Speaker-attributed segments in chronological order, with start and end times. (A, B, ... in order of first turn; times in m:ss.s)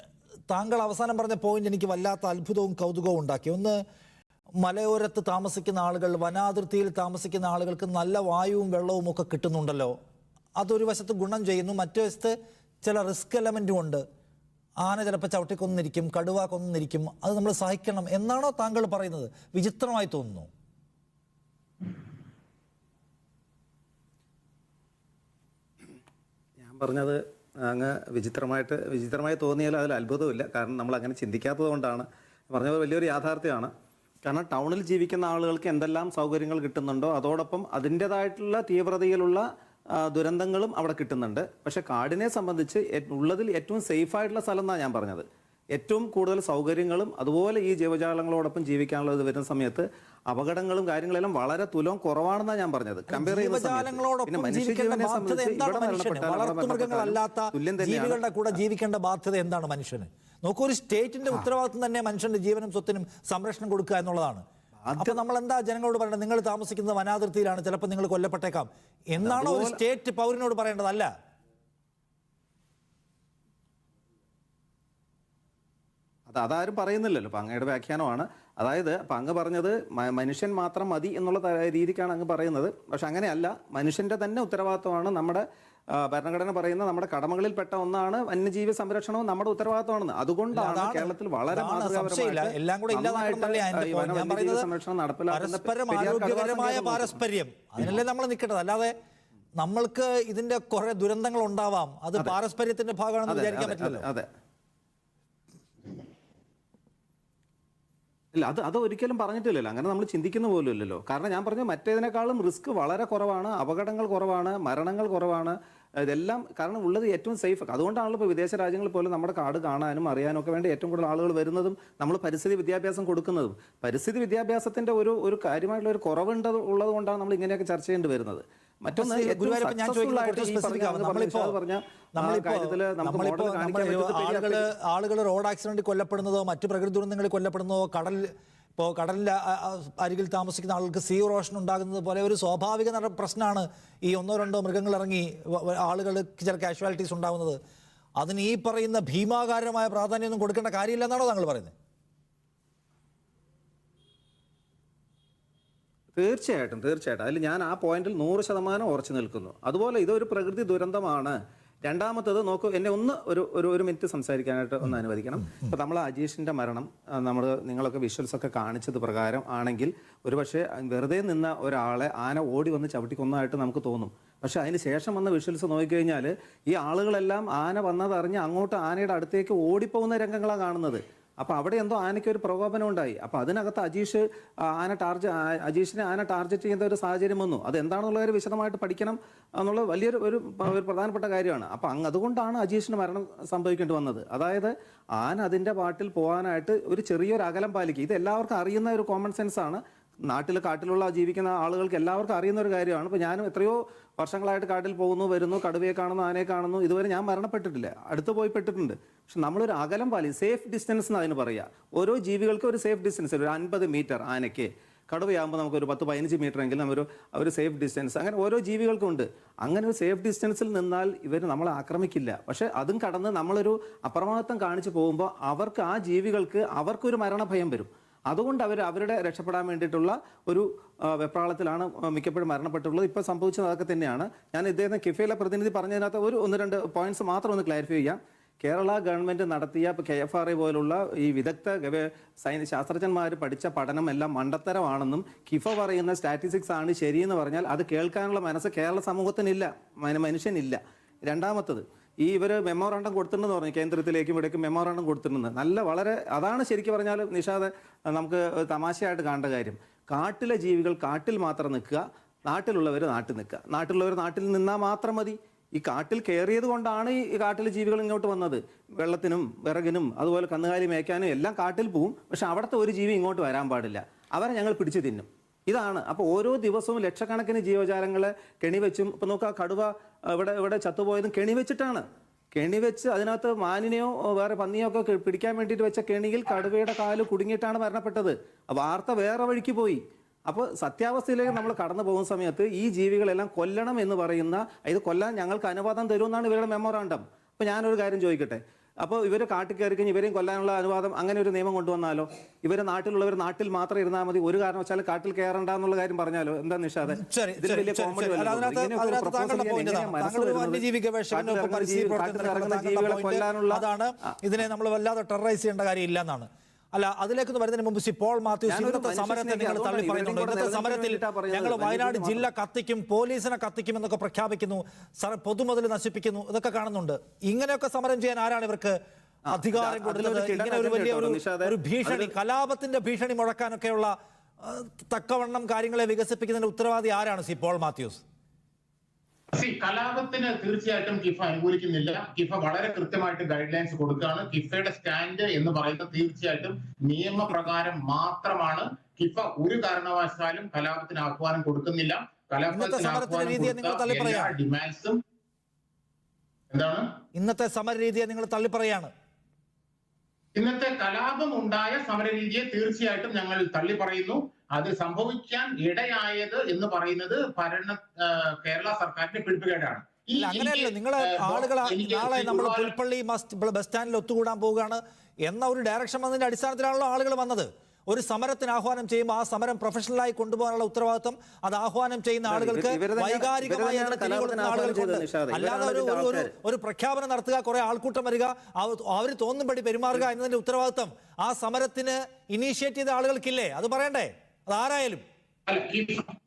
0:00.5-0:03.8 A
0:04.6-0:10.0 A
0:10.6-0:14.0 A
0:14.8-0:20.5 A
0:26.6-0:33.7 B
0:34.2-0:58.2 B
0:53.1-1:04.4 A
1:04.8-1:05.2 B
1:05.0-1:11.1 A
1:09.2-1:09.8 B
1:16.3-1:37.2 B
1:30.5-1:34.7 A
1:35.3-1:38.9 A
1:39.6-1:44.1 A
1:43.3-1:44.3 B
1:48.3-2:14.6 B
2:09.0-2:11.6 A
2:12.2-2:27.6 A
2:28.2-2:31.7 A
2:36.2-4:42.0 B
4:42.6-5:13.8 B
5:07.1-5:29.0 A
5:18.7-5:22.5 B
5:29.5-5:32.3 B
5:29.5-5:38.2 A
5:39.5-5:55.2 C
5:52.7-5:54.5 A
5:56.7-5:57.1 C
5:57.4-5:59.1 A
6:00.6-6:12.9 C
6:10.4-6:35.2 A
6:22.5-6:26.5 B
6:35.7-6:36.3 C